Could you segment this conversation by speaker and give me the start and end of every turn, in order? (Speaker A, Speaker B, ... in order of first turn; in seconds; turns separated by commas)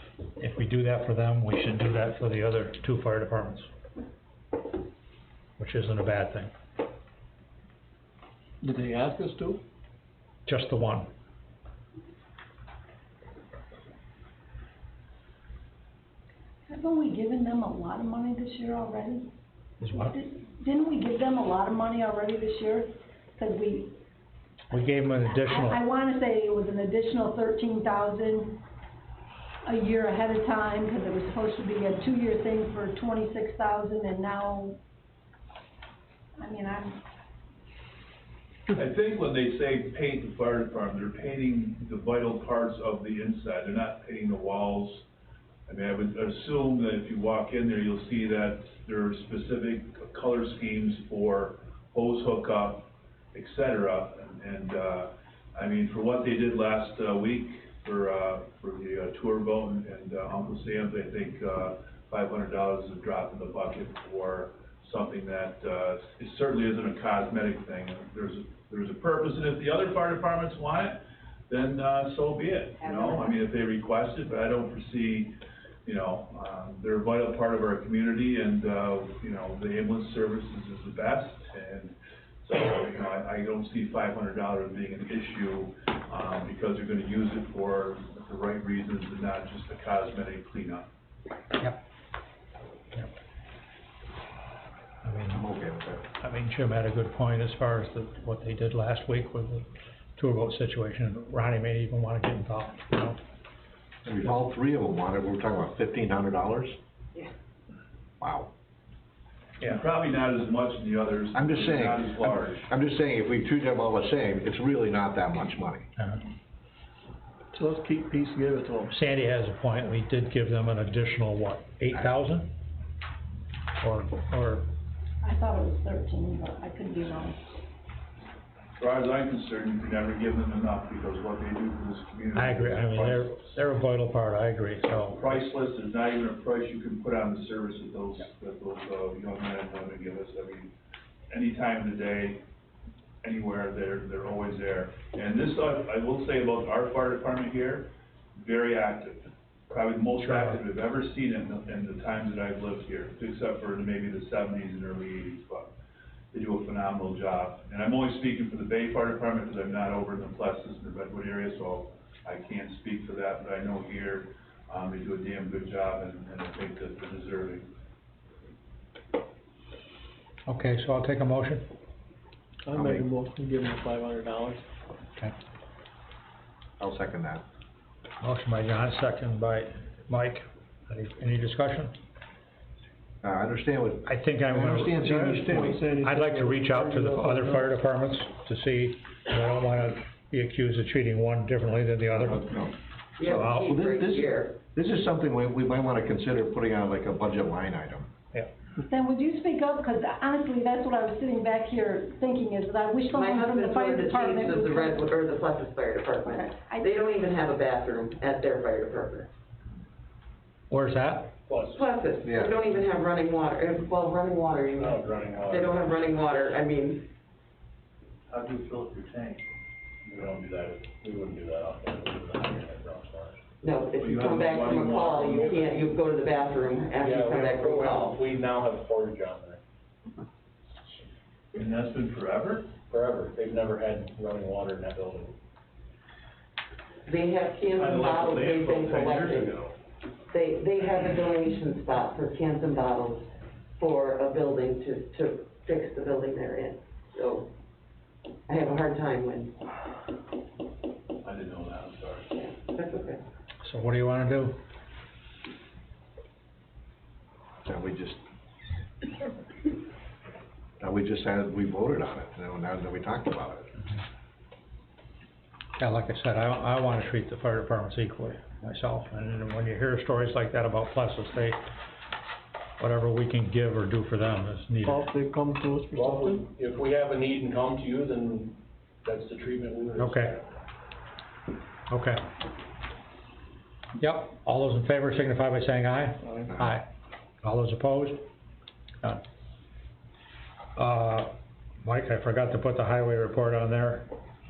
Speaker A: 0.4-3.7, Speaker A: 5.6-6.5, Speaker B: 8.6-9.6, Speaker A: 10.5-11.1, Speaker C: 16.7-19.3, Speaker A: 19.8-20.2, Speaker C: 20.0-23.9, Speaker A: 24.7-25.8, Speaker C: 25.3-28.6, Speaker C: 29.7-34.8, Speaker C: 36.4-37.0, Speaker D: 38.7-45.0, Speaker D: 45.7-90.9, Speaker A: 95.0-95.4, Speaker E: 95.3-96.0, Speaker A: 96.2-103.2, Speaker E: 104.0-106.8, Speaker E: 108.2-108.5, Speaker D: 109.6-112.7, Speaker E: 111.3-115.8, Speaker F: 117.6-118.8, Speaker B: 117.7-118.9, Speaker A: 118.9-122.5, Speaker A: 123.8-124.7, Speaker C: 125.2-127.6, Speaker D: 128.8-133.5, Speaker A: 132.3-135.2, Speaker D: 134.8-140.7, Speaker D: 141.3-142.4, Speaker D: 143.2-155.7, Speaker A: 150.2-150.6, Speaker D: 156.3-167.7, Speaker A: 170.5-171.7, Speaker B: 172.7-174.6, Speaker F: 172.7-174.6, Speaker E: 172.7-173.1, Speaker E: 176.8-177.4, Speaker A: 178.2-181.9, Speaker E: 183.2-185.8, Speaker A: 184.1-192.5, Speaker E: 192.2-192.7, Speaker G: 193.2-194.6, Speaker A: 193.2-193.6, Speaker E: 193.3-198.1, Speaker C: 198.8-205.1, Speaker G: 203.1-209.3, Speaker C: 206.2-207.5, Speaker A: 210.7-211.3, Speaker B: 211.5-211.9, Speaker G: 211.7-217.1, Speaker E: 212.2-212.6, Speaker B: 214.7-216.0, Speaker D: 218.3-219.4, Speaker B: 220.0-223.4, Speaker G: 223.6-228.2, Speaker D: 223.9-225.9, Speaker B: 226.9-229.6, Speaker D: 231.5-232.7, Speaker B: 232.9-235.3, Speaker G: 237.0-239.5, Speaker D: 237.7-239.5, Speaker B: 238.8-239.7, Speaker G: 240.3-247.5, Speaker G: 248.5-249.5, Speaker D: 251.2-252.3, Speaker G: 252.3-253.2, Speaker A: 253.6-254.6, Speaker E: 257.6-258.2, Speaker E: 260.8-263.7, Speaker A: 265.8-271.6, Speaker A: 272.8-275.1, Speaker F: 274.9-275.9, Speaker B: 275.1-280.5, Speaker A: 280.0-280.3, Speaker A: 281.9-282.2, Speaker A: 284.0-286.9, Speaker A: 287.4-288.2, Speaker A: 290.8-291.3, Speaker A: 291.8-294.1